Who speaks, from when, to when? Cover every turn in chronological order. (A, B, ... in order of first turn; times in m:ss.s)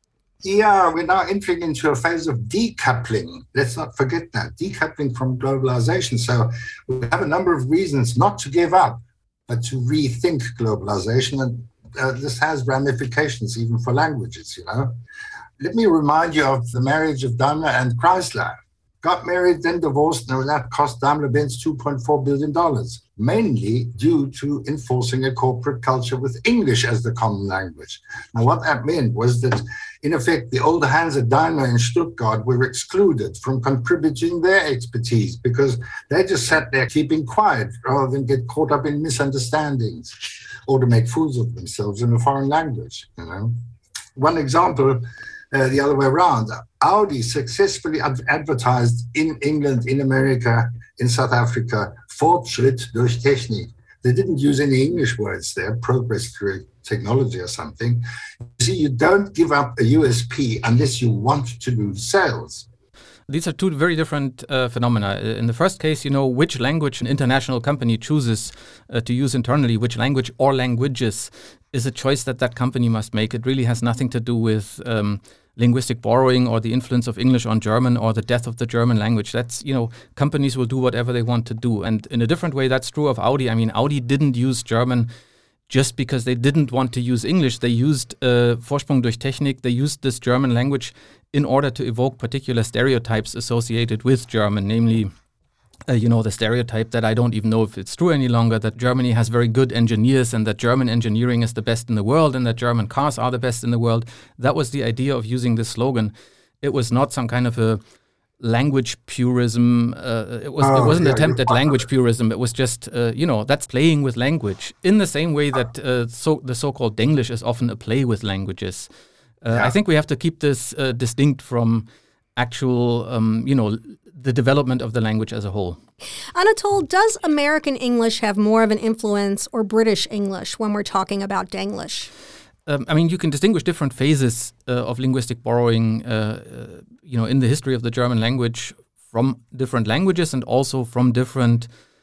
0:00.4-0:14.9 A
0:15.6-0:43.6 A
0:44.2-0:58.0 A
0:58.6-1:02.7 A
1:03.3-1:25.1 B
1:25.7-1:35.1 B
1:35.9-1:47.8 B
1:48.4-1:58.9 B
1:50.6-1:51.9 A
1:59.4-2:05.8 B
2:06.3-2:12.1 C
2:12.6-2:21.7 B